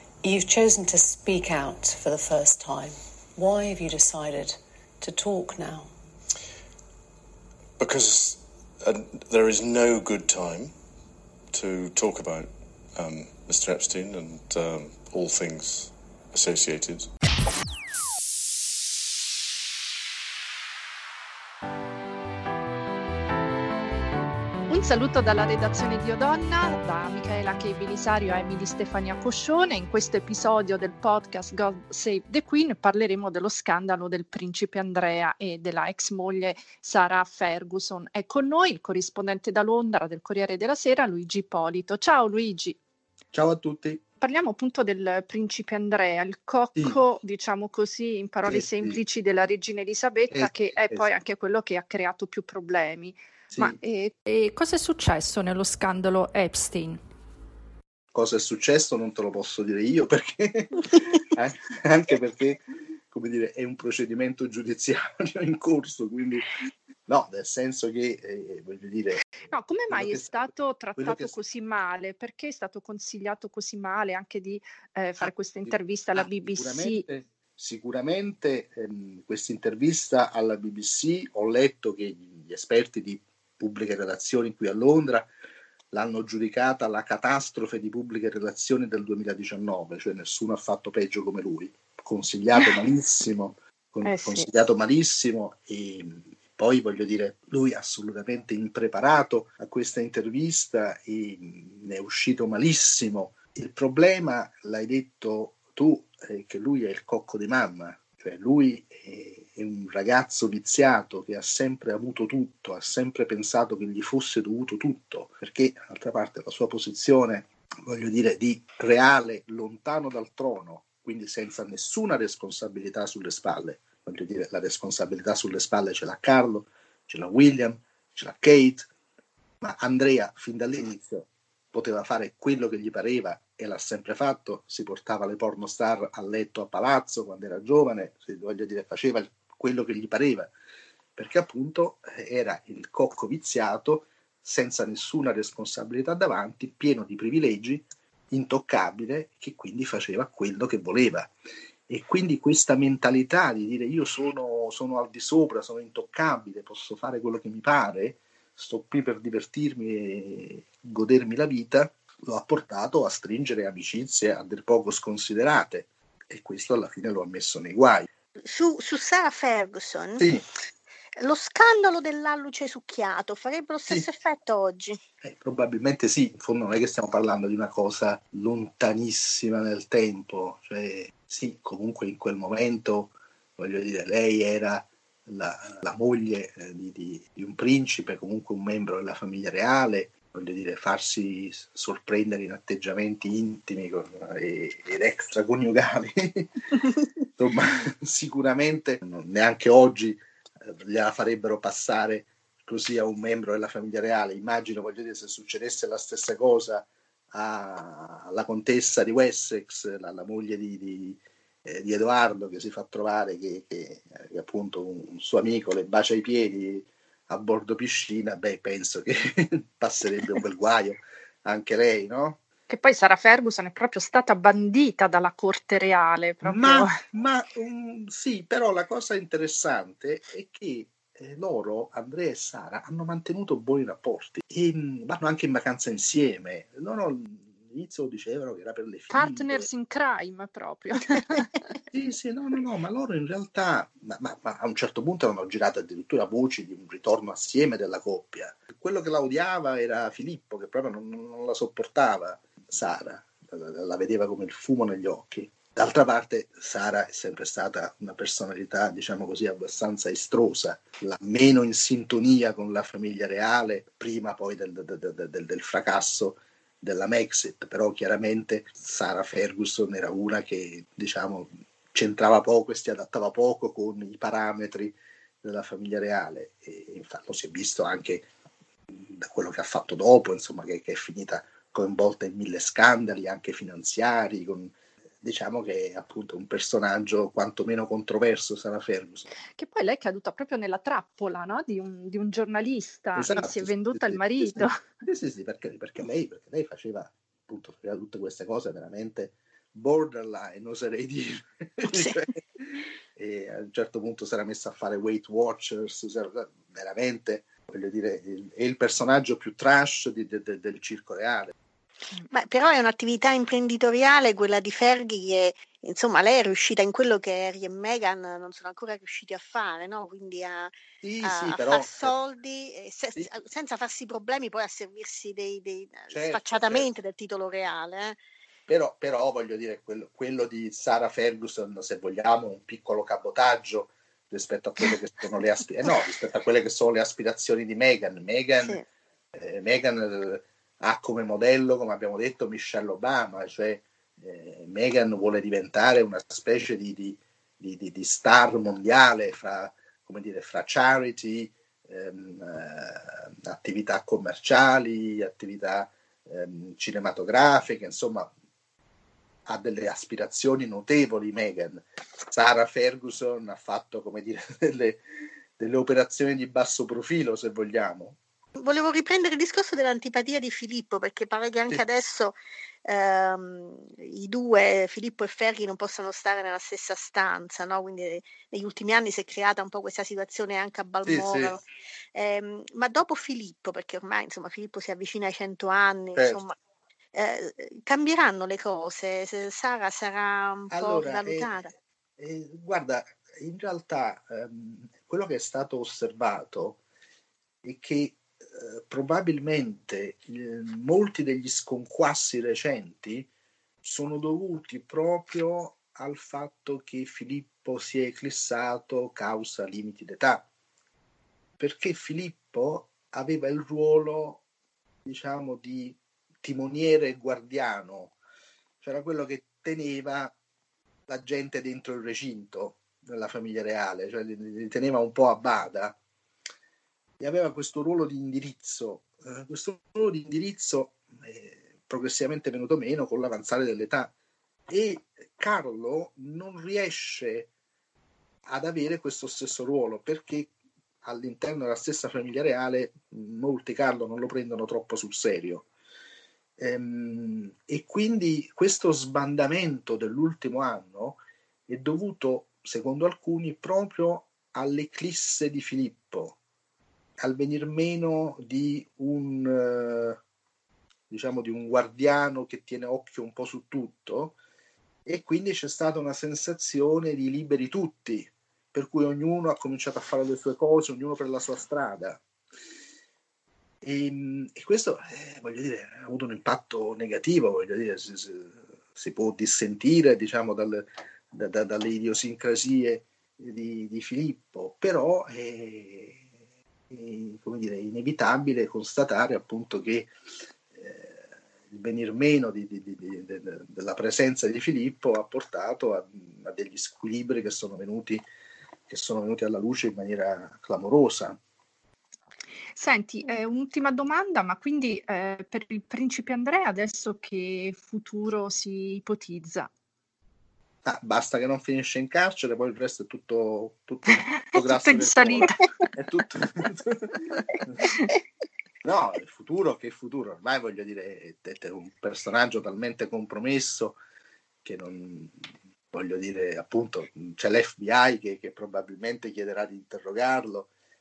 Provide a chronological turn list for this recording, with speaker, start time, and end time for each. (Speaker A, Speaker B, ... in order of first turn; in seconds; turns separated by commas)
Speaker A: 0.2-5.9, Speaker B: 7.8-10.7, Speaker B: 11.5-17.1, Speaker C: 24.7-42.8, Speaker D: 43.3-44.0, Speaker C: 44.2-57.0, Speaker D: 48.5-49.0, Speaker D: 50.3-51.1, Speaker D: 58.1-66.5, Speaker D: 67.1-69.2, Speaker C: 69.5-77.0, Speaker D: 69.9-71.3, Speaker D: 75.2-85.3, Speaker D: 85.9-128.9, Speaker C: 94.0-94.5, Speaker D: 129.6-140.5, Speaker D: 141.2-151.3, Speaker D: 151.9-168.1, Speaker E: 168.5-170.3, Speaker D: 170.2-170.5, Speaker E: 171.2-175.0, Speaker D: 175.2-196.5, Speaker D: 197.4-222.4, Speaker C: 222.7-226.9, Speaker D: 226.4-239.7, Speaker C: 239.1-241.7, Speaker D: 241.9-278.3, Speaker D: 278.9-289.3, Speaker C: 289.5-294.7, Speaker D: 293.2-311.5, Speaker E: 301.9-302.2, Speaker E: 312.3-320.7, Speaker D: 321.0-322.2, Speaker E: 321.2-328.2, Speaker D: 326.1-326.9, Speaker D: 328.7-338.8, Speaker D: 339.4-358.3, Speaker D: 359.5-365.0, Speaker D: 365.6-368.2, Speaker E: 368.6-386.6, Speaker D: 381.1-381.6, Speaker D: 386.2-386.4, Speaker E: 387.1-391.7, Speaker D: 390.7-396.8, Speaker D: 397.6-403.3, Speaker D: 403.8-410.5, Speaker D: 411.6-414.4, Speaker D: 415.1-418.2, Speaker D: 418.8-420.4, Speaker D: 421.1-426.0, Speaker D: 427.2-434.1, Speaker D: 434.7-437.5, Speaker D: 438.5-440.5, Speaker D: 441.0-445.7, Speaker D: 446.6-456.4, Speaker D: 457.2-460.2, Speaker D: 461.1-464.4, Speaker D: 465.1-472.2, Speaker D: 473.8-486.2, Speaker D: 486.9-490.1, Speaker D: 490.7-498.2, Speaker D: 498.9-501.4, Speaker C: 502.8-509.7, Speaker D: 510.8-517.8, Speaker C: 514.2-515.6, Speaker D: 518.8-524.0, Speaker D: 524.6-530.7